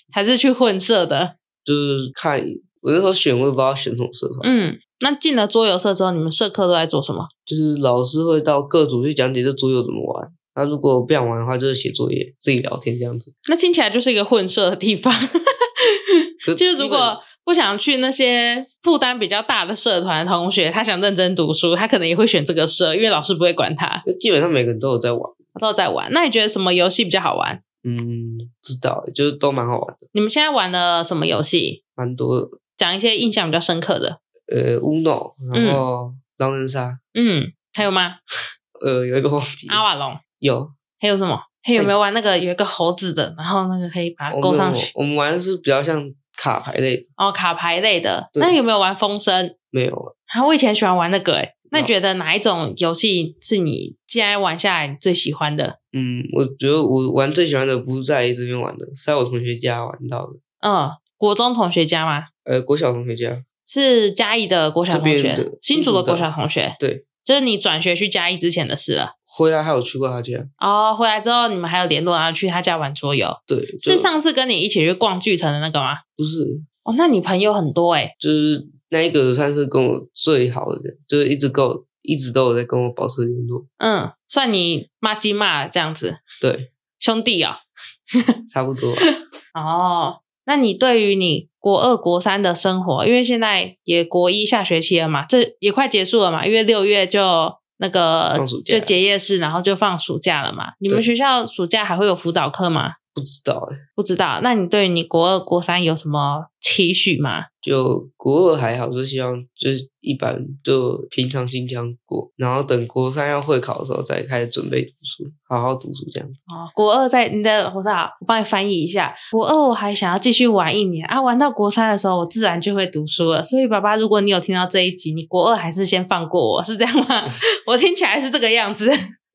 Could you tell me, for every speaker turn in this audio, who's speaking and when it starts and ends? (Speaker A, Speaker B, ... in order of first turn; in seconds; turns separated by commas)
Speaker A: 0.1-1.3, Speaker B: 1.6-4.5, Speaker A: 4.4-7.3, Speaker B: 7.5-13.3, Speaker A: 13.4-24.0, Speaker B: 16.4-17.2, Speaker B: 24.0-25.4, Speaker A: 25.5-27.6, Speaker B: 27.8-30.0, Speaker A: 30.1-31.8, Speaker B: 32.0-32.6, Speaker A: 32.8-34.2, Speaker B: 34.5-37.0, Speaker A: 35.5-35.8, Speaker A: 37.1-38.2, Speaker B: 38.8-39.8, Speaker A: 39.7-40.2, Speaker B: 40.4-40.7, Speaker A: 41.0-44.9, Speaker B: 44.3-47.0, Speaker A: 47.2-49.5, Speaker B: 49.7-50.1, Speaker A: 50.3-55.8, Speaker B: 55.9-60.4, Speaker A: 60.6-62.3, Speaker B: 62.5-63.4, Speaker A: 63.7-69.1, Speaker B: 64.9-66.3, Speaker B: 69.3-70.5, Speaker A: 70.6-76.0, Speaker B: 73.5-74.1, Speaker B: 76.2-76.7, Speaker A: 76.8-78.1, Speaker B: 78.2-83.7, Speaker A: 83.8-86.2, Speaker B: 86.4-86.7, Speaker A: 87.0-87.6, Speaker B: 88.5-89.1, Speaker A: 89.0-103.0, Speaker B: 98.3-99.0, Speaker B: 103.1-103.8, Speaker A: 104.0-107.5, Speaker B: 107.6-116.4, Speaker A: 116.5-129.1